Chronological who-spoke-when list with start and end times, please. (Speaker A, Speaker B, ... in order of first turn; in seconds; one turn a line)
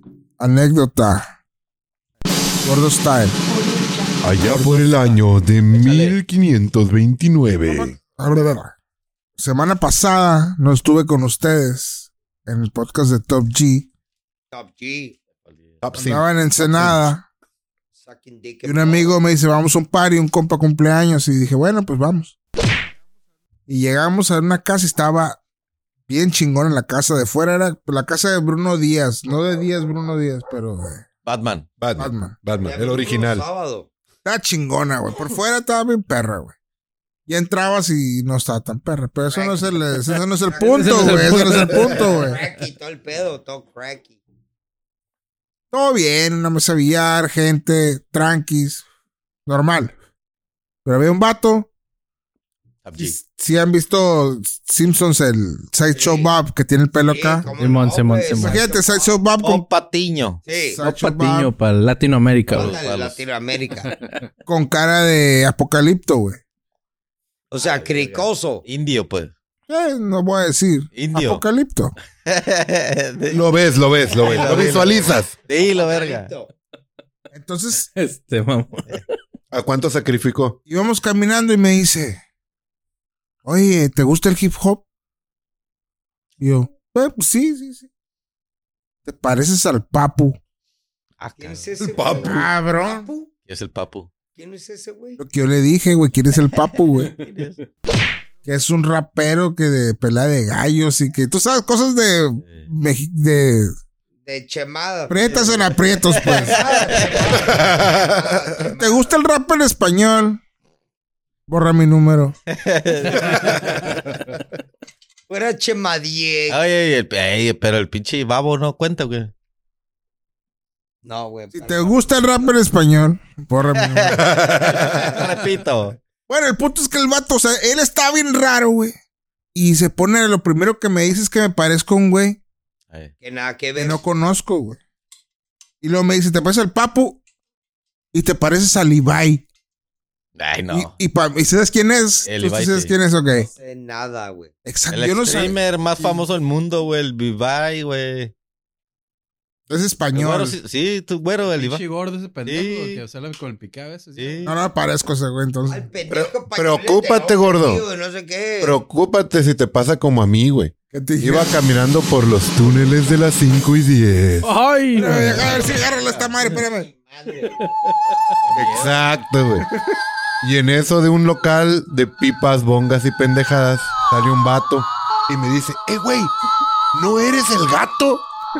Speaker A: 0.4-1.3
Speaker A: 2.6-3.4
Speaker B: 4.2-7.9
Speaker A: 4.4-4.9
Speaker C: 5.7-6.2
Speaker A: 7.5-8.7
Speaker A: 9.4-13.9
Speaker D: 14.5-15.2
Speaker C: 15.4-15.8
Speaker B: 15.8-17.0
Speaker A: 15.9-17.2
Speaker D: 18.0-19.2
Speaker A: 18.6-22.3
Speaker A: 23.7-25.4
Speaker A: 26.1-31.0
Speaker C: 31.2-31.8
Speaker B: 31.8-33.4
Speaker A: 31.9-32.4
Speaker D: 32.6-33.9
Speaker A: 34.2-36.5
Speaker A: 37.3-42.4
Speaker D: 39.3-44.2
Speaker E: 40.6-42.1
Speaker A: 45.7-48.8
Speaker A: 49.5-49.9
Speaker A: 50.8-51.7
Speaker C: 52.8-53.2
Speaker A: 53.0-57.5
Speaker D: 55.9-56.3
Speaker D: 57.1-59.2
Speaker E: 57.5-58.6
Speaker A: 58.3-59.6
Speaker C: 59.4-60.4
Speaker D: 60.4-60.8
Speaker A: 60.7-61.5
Speaker E: 60.8-62.7
Speaker C: 62.5-63.2
Speaker D: 62.5-63.9
Speaker A: 64.5-66.4
Speaker D: 67.5-68.6
Speaker C: 67.6-69.3
Speaker A: 69.7-71.9
Speaker C: 70.9-71.4
Speaker C: 72.2-73.4
Speaker B: 73.3-75.3
Speaker C: 74.1-76.3
Speaker D: 74.2-76.5
Speaker A: 77.3-77.9
Speaker E: 77.9-79.1
Speaker B: 79.5-80.6
Speaker A: 80.7-82.2
Speaker A: 83.4-84.8
Speaker A: 86.4-87.9
Speaker A: 89.0-90.4
Speaker C: 91.2-91.9
Speaker D: 91.4-93.3
Speaker B: 91.9-92.4
Speaker A: 92.2-93.1
Speaker C: 93.5-94.1
Speaker D: 94.3-95.2
Speaker A: 95.2-97.2
Speaker C: 97.0-97.6
Speaker A: 98.4-103.7
Speaker D: 104.2-105.6
Speaker A: 105.1-106.9
Speaker C: 105.3-107.3
Speaker D: 106.3-109.1
Speaker B: 107.4-108.3
Speaker A: 108.7-110.4
Speaker A: 111.5-112.3
Speaker C: 112.5-114.0
Speaker D: 115.3-116.6
Speaker C: 116.5-119.3
Speaker D: 121.0-122.0
Speaker A: 121.5-124.5
Speaker C: 123.8-126.0
Speaker B: 124.6-125.0
Speaker D: 125.0-125.3
Speaker A: 126.3-128.9
Speaker A: 129.5-132.4
Speaker D: 133.2-134.0
Speaker A: 133.8-134.8
Speaker A: 135.8-137.2
Speaker A: 138.1-139.4
Speaker C: 140.3-140.9
Speaker A: 140.7-143.5
Speaker C: 142.2-142.9
Speaker D: 143.3-144.5
Speaker A: 144.6-146.2
Speaker C: 144.9-148.3
Speaker A: 149.7-150.6
Speaker C: 150.1-151.8
Speaker F: 151.4-154.5
Speaker C: 152.4-153.0
Speaker C: 154.2-154.5
Speaker A: 154.4-155.9
Speaker D: 155.7-158.8
Speaker B: 156.1-157.8
Speaker B: 158.6-164.5
Speaker A: 160.9-161.6
Speaker E: 164.4-165.6
Speaker A: 164.9-166.9
Speaker D: 166.9-167.5
Speaker C: 168.4-169.0
Speaker B: 168.5-169.7
Speaker B: 170.4-176.3
Speaker B: 176.9-178.2